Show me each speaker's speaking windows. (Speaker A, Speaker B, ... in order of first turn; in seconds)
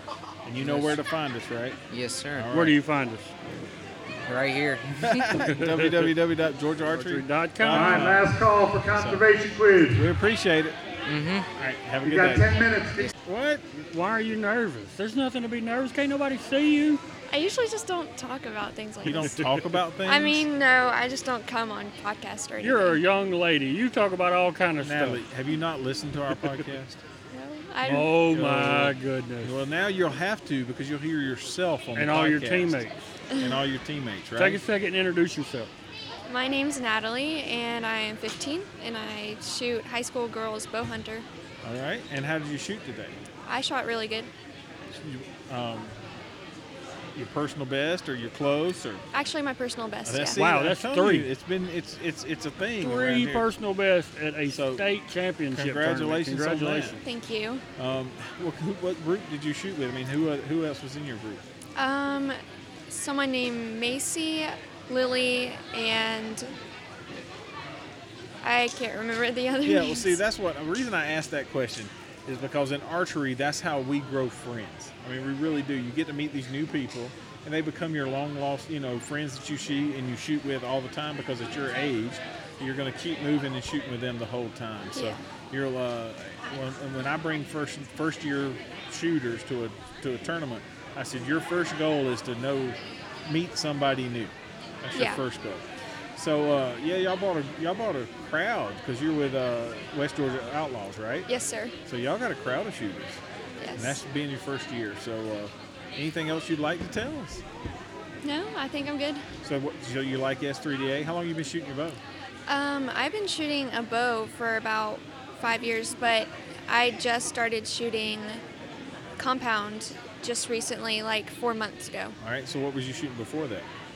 Speaker A: 0.5-1.8, 2.4-2.8, 5.0-9.3, 9.9-10.8, 11.6-12.6, 13.2-13.6, 19.0-20.5, 24.8-27.0, 28.3-32.9, 33.4-34.6, 41.6-43.2, 44.9-46.0, 47.1-49.0, 50.0-53.5, 54.5-54.8, 55.5-57.0, 57.8-61.4, 69.6-101.3, 101.9-103.2, 103.8-107.4, 109.4-112.0, 122.2-123.7
Speaker B: 0.6-1.0, 1.9-2.5, 4.2-5.4, 11.1-11.5
Speaker C: 2.5-3.3, 5.5-5.9, 6.9-8.2, 13.9-17.0, 22.6-25.2, 27.8-29.5, 31.9-33.0, 34.4-35.7, 50.4-51.3, 52.8-57.0
Speaker D: 7.7-10.1, 12.0-13.1
Speaker E: 17.3-19.4, 20.0-23.0, 27.3-28.2, 33.3-33.6, 36.3-41.3, 43.5-44.3, 49.1-50.4, 57.0-57.6, 61.8-66.5, 68.4-70.2, 84.9-85.2, 94.9-95.2, 101.3-101.7, 103.6-104.0, 108.2-109.3, 112.5-118.4, 119.2-122.2